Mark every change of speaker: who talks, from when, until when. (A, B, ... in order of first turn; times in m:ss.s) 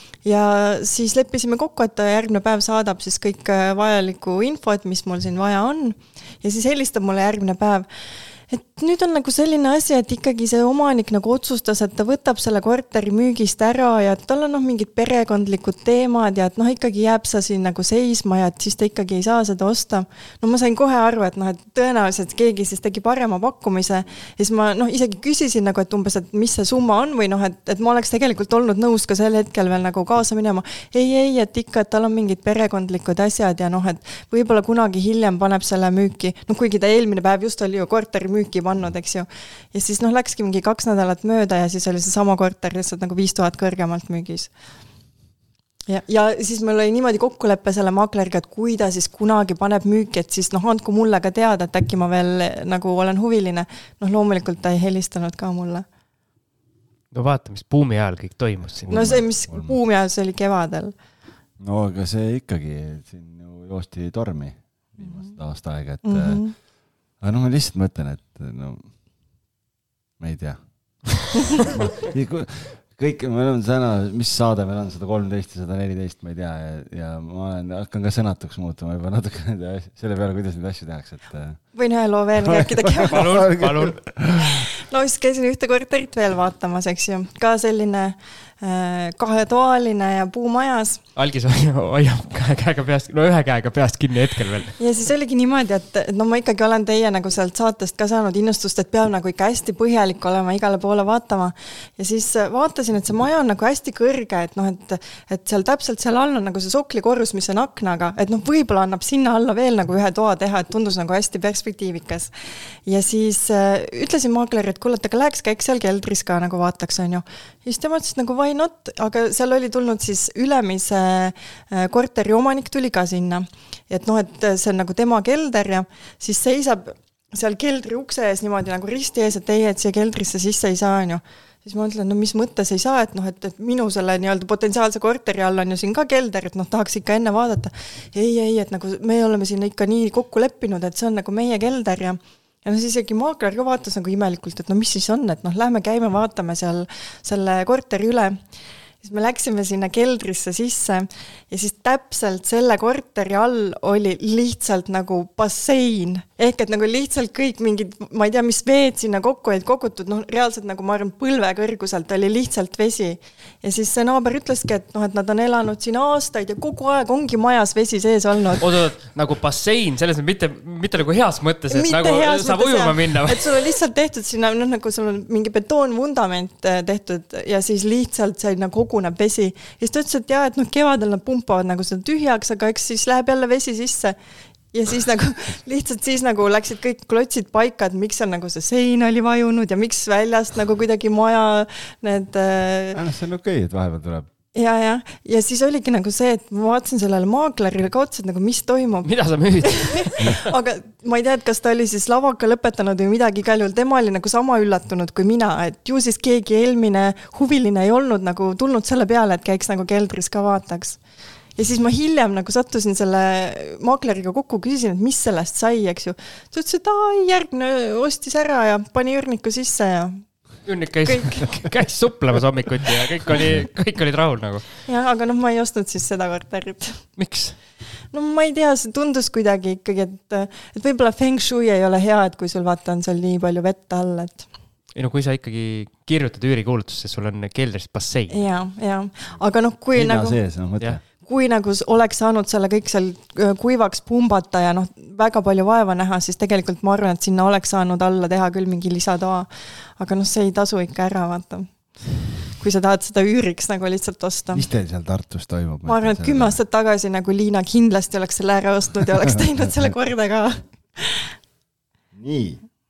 0:00.2-0:07.9 A
0:08.5-0:44.5 A
0:45.9-0:55.9 A
0:57.1-0:59.3 B
0:58.8-0:59.8 C
0:58.9-1:01.0 A
1:01.6-1:08.9 C
1:06.0-1:06.6 A
1:10.2-1:21.7 C
1:21.7-1:23.3 A
1:22.4-1:24.6 C
1:23.0-1:24.0 B
1:24.8-1:31.0 A
1:31.2-1:34.8 B
1:34.8-1:52.3 A
1:52.9-2:28.4 A
2:29.0-2:48.7 A
2:48.6-2:53.5 B
2:51.7-3:04.2 A
3:04.7-3:13.0 A
3:12.9-3:14.3 C
3:14.5-3:19.1 A
3:19.0-3:20.5 B
3:19.7-3:31.0 A
3:31.6-3:40.3 A
3:40.6-3:44.7 B
3:41.1-3:41.5 A
3:44.9-3:47.2 A
3:47.2-3:47.6 B
3:48.1-3:54.4 A
3:55.0-3:58.4 B
3:58.3-4:00.4 A
3:59.9-4:01.0 C
4:01.2-4:14.7 A
4:14.5-4:16.6 C
4:15.9-4:21.4 A
4:22.1-4:22.6 C